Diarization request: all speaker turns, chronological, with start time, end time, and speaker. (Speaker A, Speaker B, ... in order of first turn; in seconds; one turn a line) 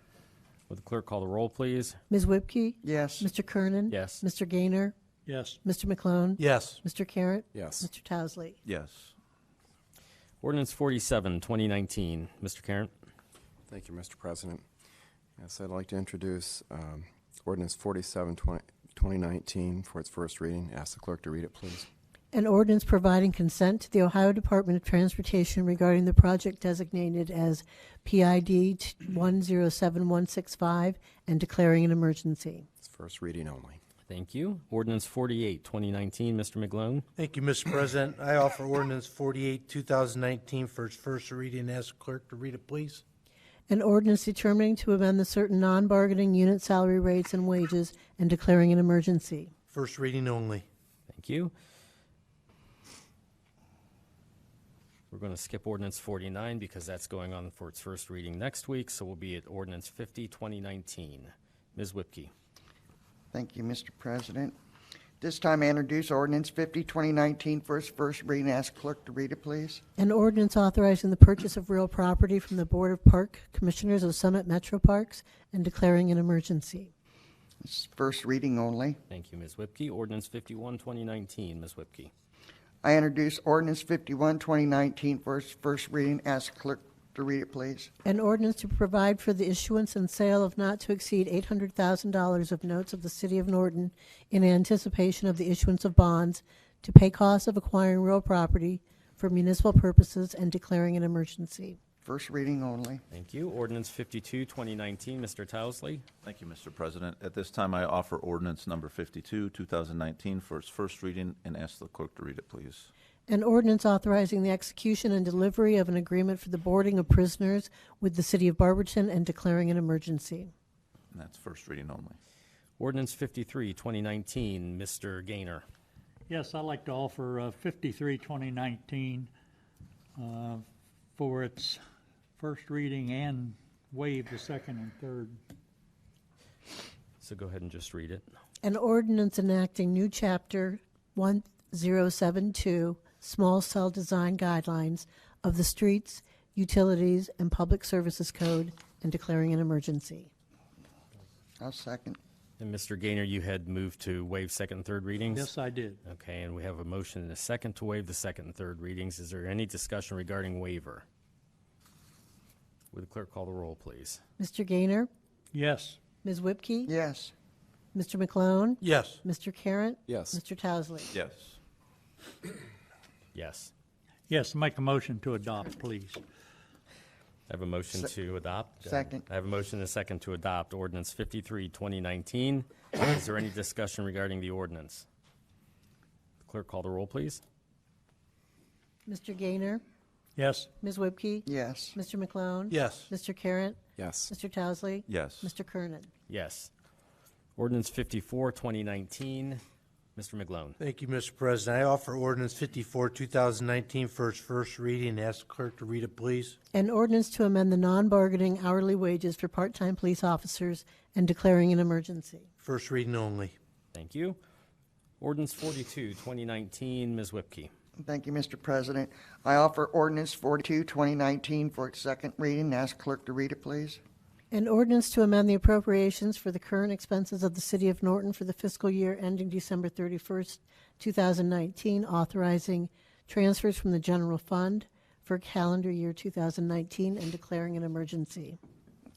Speaker A: 0.7-2.0
Speaker B: 2.1-5.0
Speaker C: 2.8-3.3
Speaker A: 3.9-4.2
Speaker D: 5.3-5.6
Speaker B: 5.6-8.6
Speaker E: 6.4-6.8
Speaker F: 7.5-7.9
Speaker G: 8.7-9.1
Speaker A: 10.4-12.9
Speaker F: 13.7-14.6
Speaker F: 15.4-21.9
Speaker B: 22.3-32.7
Speaker F: 32.8-33.8
Speaker A: 34.1-37.0
Speaker E: 37.2-43.0
Speaker B: 43.7-49.5
Speaker E: 49.7-50.6
Speaker A: 51.1-51.5
Speaker A: 55.1-62.3
Speaker C: 63.3-64.5
Speaker C: 65.2-69.8
Speaker B: 70.0-76.9
Speaker C: 77.6-79.0
Speaker A: 79.1-82.1
Speaker C: 82.8-87.9
Speaker B: 88.0-101.8
Speaker C: 102.0-103.0
Speaker A: 103.1-106.0
Speaker G: 106.2-112.9
Speaker B: 113.3-120.5
Speaker G: 121.1-122.2
Speaker A: 122.8-125.6
Speaker D: 126.3-129.3
Speaker D: 130.2-130.6
Speaker D: 131.2-131.8
Speaker D: 132.4-135.4
Speaker A: 137.2-138.2
Speaker B: 138.6-150.3
Speaker C: 151.6-152.2
Speaker A: 152.6-155.5
Speaker D: 155.3-156.0
Speaker A: 156.0-161.0
Speaker A: 162.9-164.2
Speaker B: 164.4-165.1
Speaker D: 165.5-166.0
Speaker B: 166.2-166.9
Speaker C: 166.9-167.3
Speaker B: 167.9-171.2
Speaker E: 168.8-169.2
Speaker F: 170.1-170.4
Speaker G: 171.1-171.6
Speaker A: 173.3-173.7
Speaker D: 174.3-176.2
Speaker A: 177.5-185.1
Speaker C: 178.8-179.2
Speaker A: 186.4-187.4
Speaker B: 189.1-189.8
Speaker D: 190.4-190.7
Speaker B: 190.8-196.1
Speaker C: 191.5-192.0
Speaker E: 192.7-193.1
Speaker F: 194.0-194.3
Speaker G: 195.1-195.5
Speaker A: 196.3-196.7
Speaker A: 197.6-199.6
Speaker A: 200.2-200.8
Speaker E: 200.8-206.6
Speaker B: 206.7-212.5
Speaker E: 212.6-213.5
Speaker A: 213.9-214.4
Speaker A: 215.2-217.7
Speaker C: 218.0-224.0
Speaker B: 224.5-238.6